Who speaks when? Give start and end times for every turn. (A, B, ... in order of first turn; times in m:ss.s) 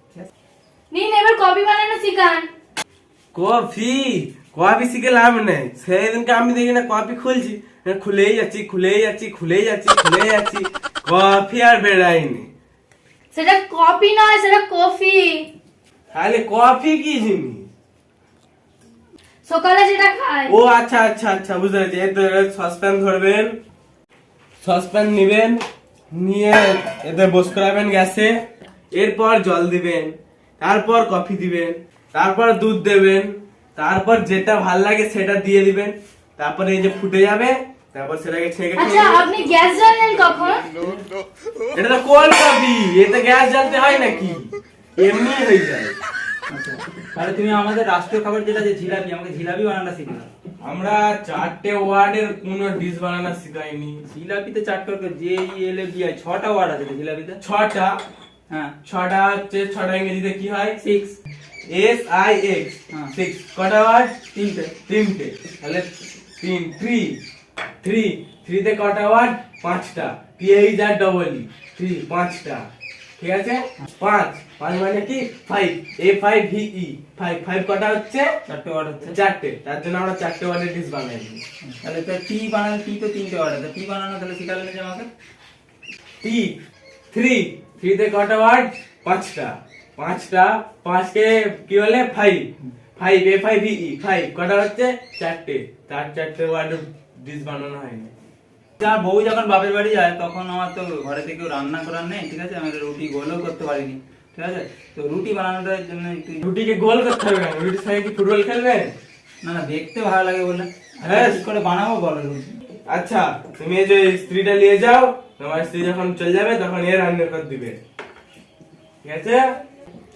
0:00.9-0:02.5 A
0:03.3-0:12.5 B
0:13.3-0:15.5 A
0:16.1-0:17.7 B
0:19.4-0:20.5 A
0:20.5-0:23.6 B
0:24.6-0:28.3 B
0:28.9-0:39.2 B
0:38.8-0:40.7 A
0:41.7-0:45.9 B
0:46.5-0:50.3 C
0:50.6-0:54.0 B
0:54.1-0:57.4 C
0:57.4-0:58.0 B
0:58.8-1:00.8 B
1:00.8-1:01.2 C
1:01.7-1:04.1 B
1:02.9-1:03.2 C
1:04.3-1:04.8 C
1:04.9-1:07.2 B
1:07.8-1:12.7 B
1:13.2-1:18.3 B
1:18.5-1:19.2 C
1:19.1-1:21.4 B
1:21.7-1:25.1 C
1:26.2-1:26.6 B
1:27.1-1:38.1 B
1:38.8-1:46.5 C
1:46.4-1:48.9 B
1:49.4-1:52.6 C
1:51.0-1:51.4 B
1:52.9-1:57.8 B
1:59.0-1:59.4 B